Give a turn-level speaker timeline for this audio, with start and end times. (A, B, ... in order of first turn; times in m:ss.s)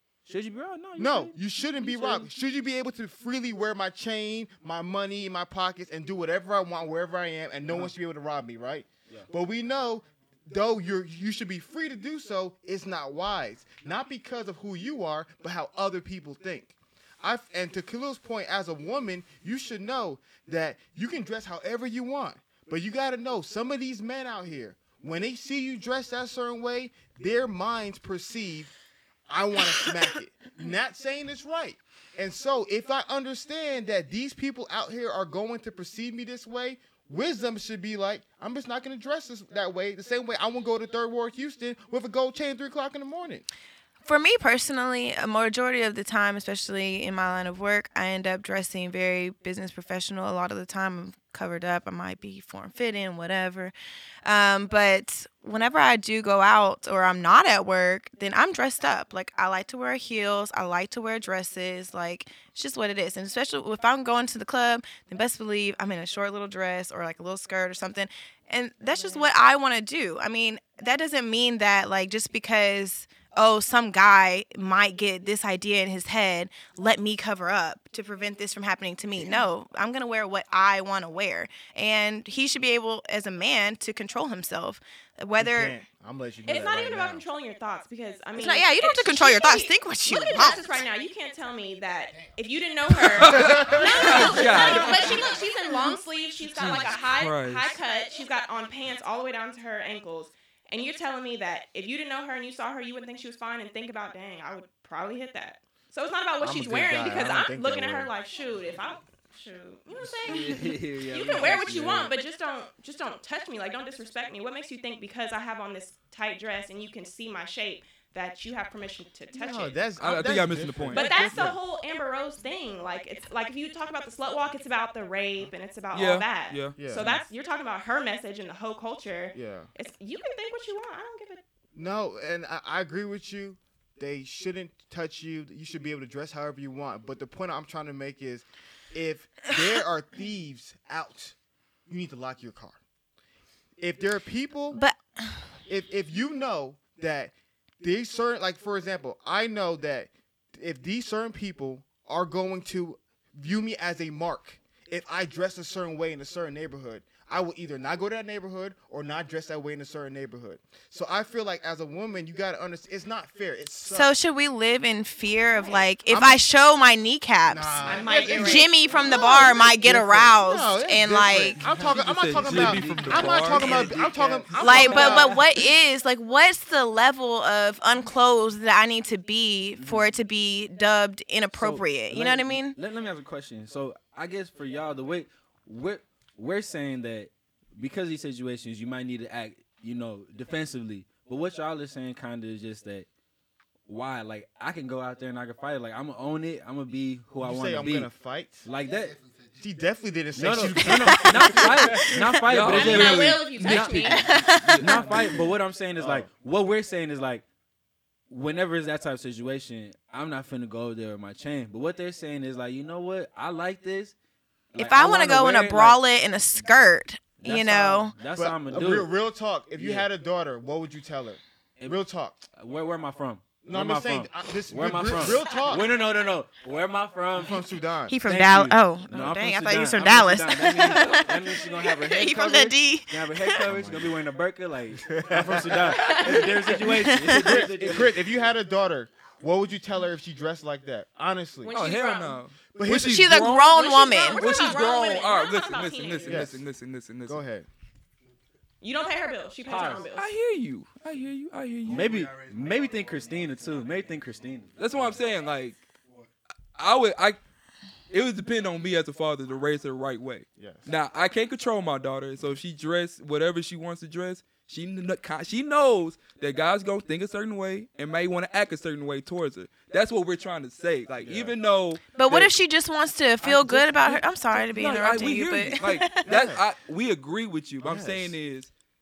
0:00.3-0:02.2 A
0:01.0-0:28.7 B
0:29.3-0:43.4 B
0:44.0-1:25.8 C
1:25.4-1:27.2 B
1:26.5-1:59.8 D
1:28.4-1:30.8 C
1:33.2-1:35.2 E
1:33.3-1:34.3 B
1:33.8-1:35.2 C
1:36.6-1:37.7 E
1:46.4-1:48.1 B
1:50.2-1:52.1 A
1:59.3-2:01.6 B
2:00.0-2:01.6 E
2:00.9-2:11.4 D
2:05.9-2:07.2 E
2:06.8-2:07.1 B
2:09.3-2:09.7 B
2:11.7-2:21.4 B
2:21.9-2:22.8 B
2:23.8-2:24.8 B
2:24.7-2:25.5 C
2:25.7-2:44.1 B
2:43.9-2:51.6 C
2:46.0-2:46.4 B
2:47.4-2:55.4 B
2:47.8-2:49.6 D
2:51.6-2:53.8 E
2:51.7-2:55.0 A
2:54.5-2:55.4 D
2:54.6-3:02.8 C
2:59.8-3:00.1 A
3:01.5-3:13.1 A
3:13.9-3:18.1 A
3:17.4-3:18.7 B
3:18.6-3:19.2 A
3:19.6-3:22.1 B
3:20.3-3:24.2 A
3:21.1-3:22.4 C
3:22.4-3:25.4 E
3:22.6-3:24.3 D
3:24.1-3:25.3 C
3:24.8-3:27.4 A
3:26.0-3:26.3 B
3:28.3-3:34.1 A
3:34.7-3:36.0 A
3:34.7-3:38.2 C
3:37.4-3:39.1 A
3:38.3-3:42.4 B
3:39.8-3:40.1 A
3:42.5-3:47.6 A
3:43.6-3:45.9 B
3:47.3-3:48.2 B
3:48.1-3:53.6 C
3:48.2-3:58.4 A
3:53.6-3:54.2 B
3:55.0-4:01.7 B
3:56.0-3:56.2 D
3:56.1-3:57.7 C
4:01.6-4:02.4 D
4:01.7-4:07.4 E
4:02.7-4:03.4 B
4:02.9-4:04.5 C
4:03.7-4:06.6 D
4:06.2-4:06.6 B
4:07.2-4:07.7 B
4:08.8-4:10.3 D
4:09.6-4:10.1 A
4:10.2-4:12.1 E
4:11.8-4:15.1 A
4:14.8-4:15.9 E
4:16.7-4:17.4 E
4:18.1-4:32.5 E
4:20.6-4:20.9 B
4:31.2-4:31.5 A
4:32.1-4:36.2 C
4:33.4-4:38.7 E
4:36.2-4:36.6 B
4:37.8-4:38.4 B